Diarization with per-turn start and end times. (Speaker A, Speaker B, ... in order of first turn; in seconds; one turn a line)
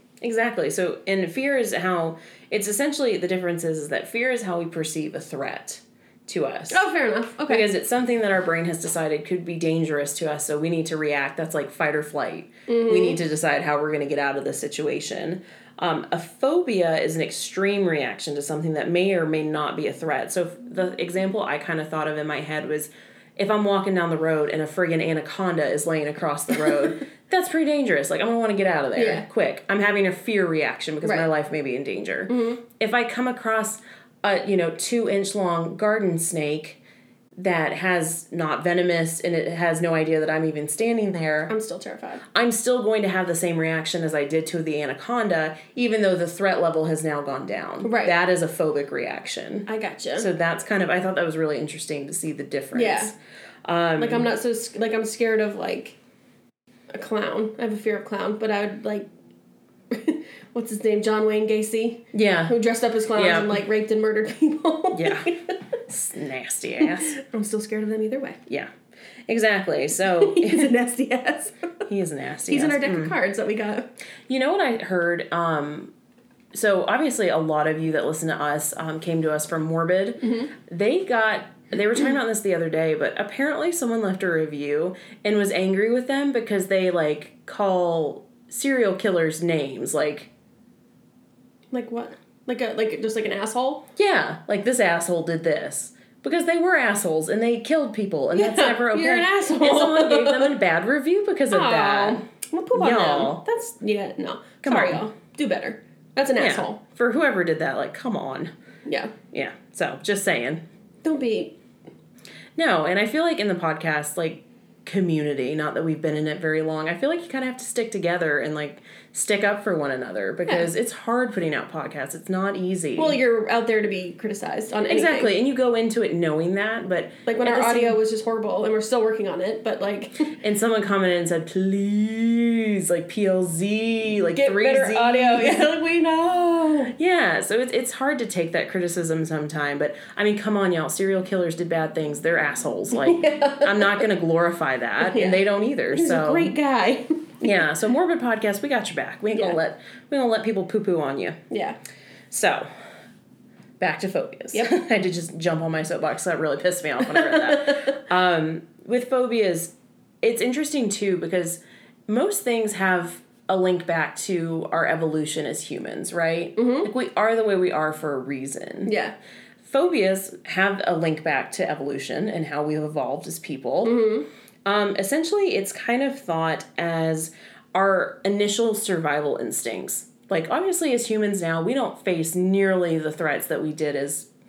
Speaker A: 0.2-6.8
Speaker B: 6.7-7.7
Speaker A: 7.5-36.8
Speaker B: 12.7-13.2
Speaker B: 28.9-29.2
Speaker B: 32.3-32.6
Speaker A: 37.4-41.5
Speaker B: 41.5-42.2
Speaker A: 42.3-53.1
Speaker B: 47.8-48.1
Speaker B: 49.7-50.3
Speaker B: 52.7-53.1
Speaker A: 53.6-54.3
Speaker B: 54.0-56.0
Speaker B: 56.9-59.1
Speaker B: 59.9-65.6
Speaker A: 62.1-62.5
Speaker A: 63.1-63.6
Speaker A: 64.9-65.4
Speaker A: 65.9-67.2
Speaker B: 66.8-68.4
Speaker A: 68.5-68.7
Speaker A: 69.3-70.7
Speaker B: 70.0-71.8
Speaker A: 71.8-73.1
Speaker B: 72.5-73.9
Speaker A: 74.3-75.9
Speaker A: 76.5-90.3
Speaker B: 80.2-80.5
Speaker B: 91.7-93.8
Speaker A: 94.0-103.4
Speaker B: 98.3-100.5
Speaker B: 101.5-106.8
Speaker A: 104.6-105.0
Speaker A: 106.4-108.5
Speaker B: 108.8-109.1
Speaker A: 109.3-110.6
Speaker B: 111.0-111.6
Speaker A: 112.5-123.2
Speaker B: 123.0-125.3
Speaker A: 124.9-128.0
Speaker B: 127.3-130.3
Speaker A: 130.4-135.7
Speaker B: 134.3-136.9
Speaker A: 136.9-146.5
Speaker B: 142.9-144.1
Speaker B: 145.0-147.3
Speaker A: 147.4-151.4
Speaker B: 149.3-149.6
Speaker B: 151.5-151.8
Speaker A: 152.3-152.7
Speaker A: 153.8-168.9
Speaker B: 157.2-157.9
Speaker B: 166.6-166.9
Speaker B: 168.8-169.1
Speaker A: 169.6-173.9
Speaker B: 173.8-174.3
Speaker A: 174.6-184.3